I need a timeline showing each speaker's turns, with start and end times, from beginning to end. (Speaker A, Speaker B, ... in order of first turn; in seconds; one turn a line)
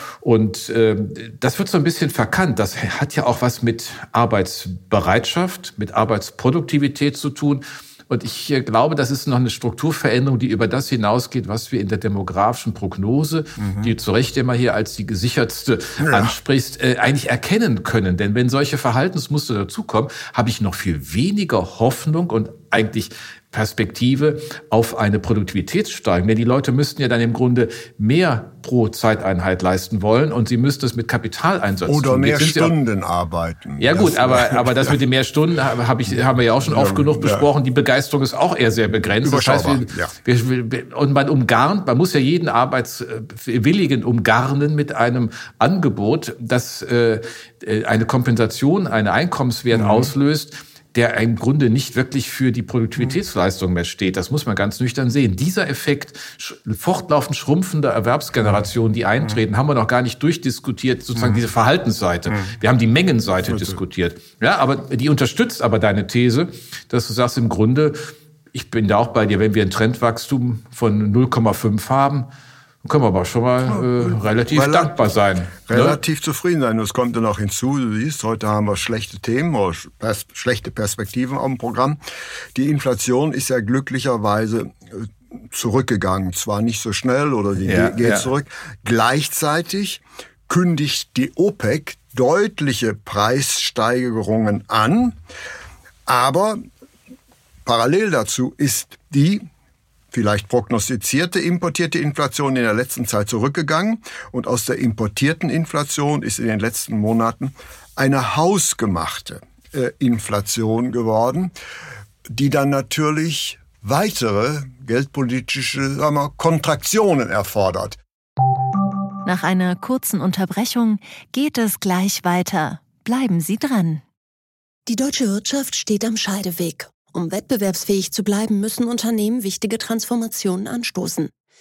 Speaker A: 0.2-32.7
Speaker B: 16.0-16.3
Speaker B: 31.9-35.0
Speaker A: 33.8-68.0
Speaker B: 36.6-37.5
Speaker B: 39.2-40.1
Speaker B: 49.7-50.1
Speaker B: 61.1-61.4
Speaker B: 63.5-63.8
Speaker A: 68.5-72.3
Speaker A: 72.8-76.0
Speaker B: 73.7-75.0
Speaker B: 75.7-82.0
Speaker B: 82.5-95.2
Speaker A: 87.7-88.3
Speaker B: 96.0-96.6
Speaker B: 97.6-99.5
Speaker B: 100.1-111.5
Speaker B: 112.3-118.0
Speaker C: 119.2-124.0
Speaker D: 124.8-131.3